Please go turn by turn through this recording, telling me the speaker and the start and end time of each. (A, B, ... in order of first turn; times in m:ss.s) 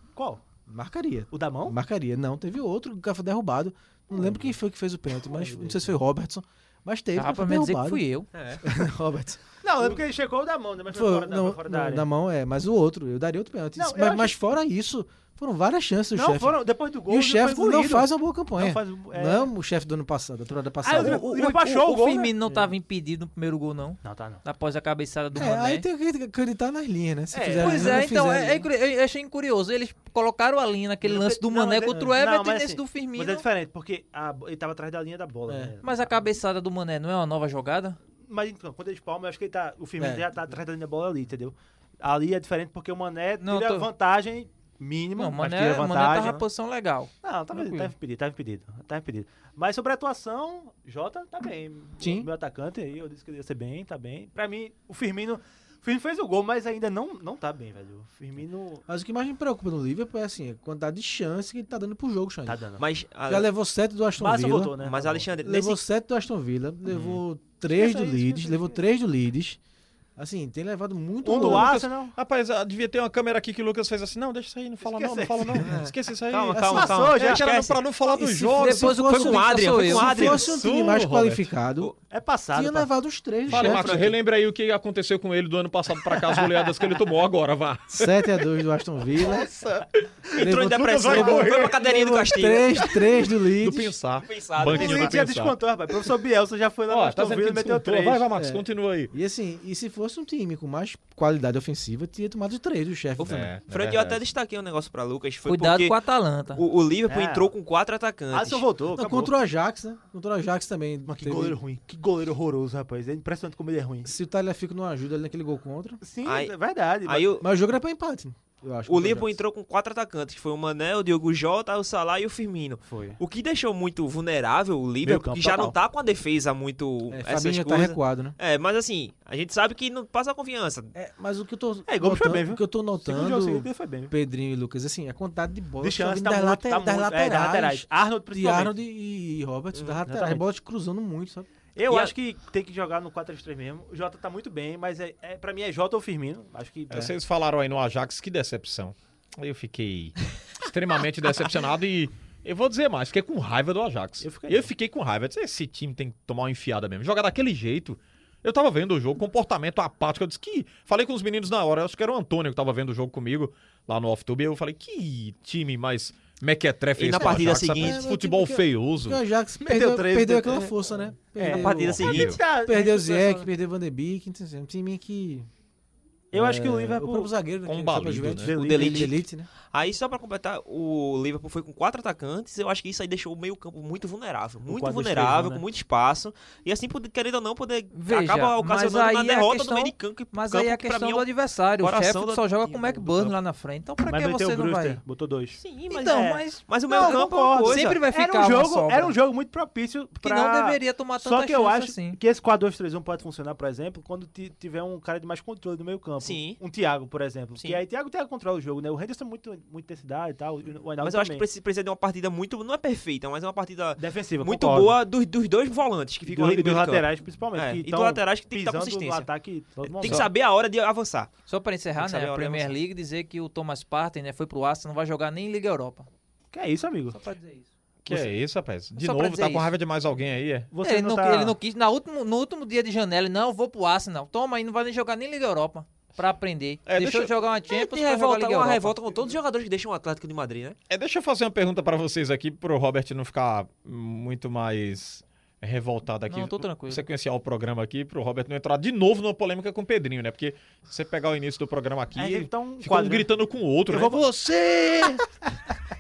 0:00.2-0:00.4 A
0:00.7-0:08.0 B
0:01.3-0:01.8 A
0:04.1-0:04.6 A
0:05.2-0:05.9 A
0:07.2-0:08.3 C
0:08.3-0:08.6 D
0:08.6-0:09.4 B
0:09.6-0:12.1 A
0:10.9-0:21.2 B
0:13.8-0:14.4 A
0:16.1-0:19.5 A
0:20.8-0:22.4 A
0:20.9-0:25.8 C
0:24.0-0:24.4 A
0:25.4-0:28.7 B
0:27.3-0:28.0 A
0:27.6-0:33.5 C
0:31.0-0:36.0 A
0:35.5-0:35.8 B
0:35.8-0:38.0 C
0:38.3-0:46.4 A
0:40.0-0:40.2 B
0:43.4-0:43.9 C
0:45.2-0:47.9 C
0:47.2-0:58.8 A
0:52.0-0:52.3 B
0:58.9-1:02.6 B
1:02.5-1:02.8 A
1:02.8-1:03.5 D
1:03.3-1:04.8 B
1:04.2-1:05.3 A
1:04.8-1:05.8 D
1:05.4-1:09.6 B
1:07.7-1:08.8 A
1:10.2-1:11.7 B
1:11.2-1:12.1 A
1:11.3-1:19.0 E
1:14.8-1:15.7 A
1:15.6-1:17.8 D
1:16.6-1:16.9 B
1:16.6-1:17.4 A
1:18.1-1:21.9 B
1:18.5-1:20.4 C
1:19.1-1:20.6 D
1:20.3-1:21.5 E
1:22.0-1:22.9 A
1:22.5-1:24.1 B
1:23.5-1:28.4 E
1:23.5-1:24.0 A
1:27.9-1:29.5 B
1:29.2-1:31.8 E
1:30.4-1:32.9 D
1:30.4-1:34.0 B
1:32.8-1:35.6 E
1:34.2-1:35.2 D
1:34.7-1:38.3 A
1:36.9-1:39.1 E
1:38.4-1:43.5 B
1:43.2-1:46.0 D
1:43.2-1:44.2 E
1:45.5-1:46.6 C
1:46.5-1:48.7 D
1:47.1-1:47.5 A
1:48.3-1:49.3 A
1:48.9-1:51.6 B
1:51.1-1:54.1 A
1:54.0-1:56.0 B
1:56.0-1:57.4 A
1:56.2-1:56.5 D
1:57.0-1:57.4 D
1:57.4-1:59.4 B
1:58.9-2:10.9 D
2:02.9-2:03.2 A
2:05.0-2:05.8 A
2:07.1-2:08.4 B
2:11.0-2:21.5 B
2:11.9-2:14.1 A
2:15.8-2:18.8 A
2:19.7-2:20.0 D
2:20.1-2:20.4 A
2:21.8-2:27.1 A
2:21.9-2:22.1 D
2:26.9-2:49.2 E
2:34.2-2:34.7 A
2:47.0-2:48.0 D
2:47.2-2:55.5 B
2:49.6-2:50.8 A
2:51.4-2:53.5 A
2:51.4-2:52.4 D
2:51.9-2:52.4 E
2:56.3-2:57.3 A
2:56.3-2:59.5 B
2:57.6-2:58.5 E
2:58.4-2:59.1 A
2:58.5-2:59.2 D
2:59.7-3:11.3 D
3:04.7-3:05.6 A
3:07.9-3:15.0 C
3:11.8-3:13.3 D
3:14.0-3:31.4 A
3:15.6-3:18.0 D
3:15.9-3:19.2 C
3:20.2-3:22.2 C
3:26.2-3:26.6 D
3:31.0-3:39.3 D
3:34.0-3:35.0 A
3:36.2-3:40.3 A
3:39.8-3:41.3 D
3:41.5-3:46.1 C
3:42.0-3:42.8 D
3:46.5-3:47.2 A
3:47.1-3:48.2 C
3:48.0-3:50.7 E
3:48.9-3:49.7 C
3:50.7-3:51.6 A
3:50.8-3:58.9 C
3:56.9-3:57.3 E
3:57.7-4:00.8 D
4:00.9-4:15.3 E
4:06.3-4:07.0 C
4:12.2-4:13.3 A
4:13.9-4:14.2 A